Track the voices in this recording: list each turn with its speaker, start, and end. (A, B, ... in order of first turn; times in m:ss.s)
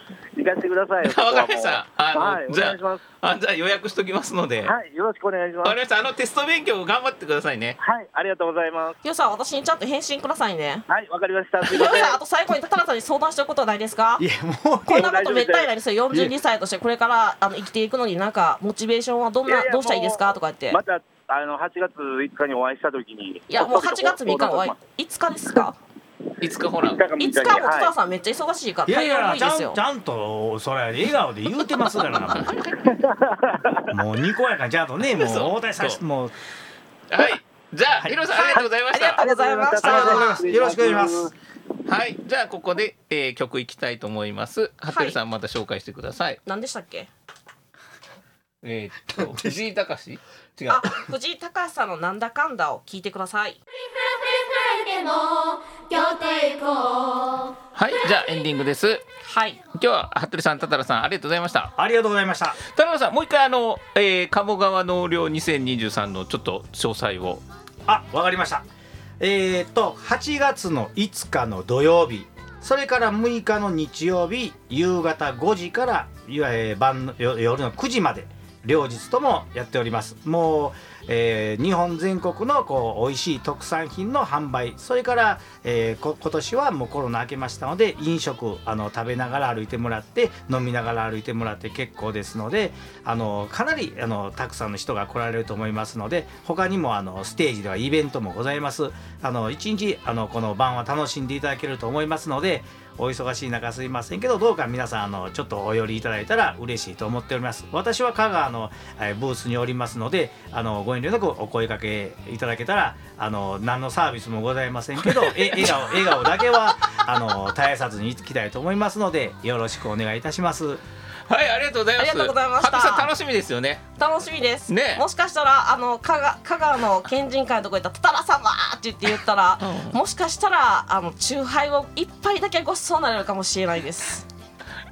0:00.4-0:03.0 A
0:01.0-0:04.7 B
0:04.6-0:05.8 A
0:05.6-0:07.8 B
0:07.8-0:09.0 A
0:09.0-0:10.8 C
0:10.9-0:12.2 A
0:11.6-0:14.2 C
0:14.2-0:15.1 D
0:14.9-0:20.8 C
0:14.9-0:15.7 A
0:19.5-0:24.8 A
0:23.5-0:25.8 C
0:26.4-0:27.0 B
0:26.8-0:27.9 A
0:27.2-0:29.8 C
0:28.8-0:32.5 D
0:32.8-0:33.9 A
0:33.9-0:36.3 D
0:35.1-0:36.0 B
0:37.1-0:39.2 B
0:38.3-0:40.3 C
0:39.2-0:41.3 A
0:39.8-0:41.3 D
0:41.8-0:46.4 B
0:44.8-0:45.2 C
0:46.4-0:47.1 C
0:48.6-0:50.9 B
0:49.1-0:49.6 D
0:50.7-0:53.6 C
0:53.9-0:57.5 E
0:57.7-0:59.0 B
0:59.2-0:59.6 C
0:59.7-1:01.7 B
1:01.8-1:02.6 D
1:02.6-1:07.4 B
1:07.9-1:08.6 D
1:09.2-2:00.8 D
1:55.1-1:56.2 B
2:01.3-2:03.8 B
2:02.0-2:03.1 C
2:04.0-2:14.3 C
2:04.7-2:05.0 B
2:09.6-2:10.0 B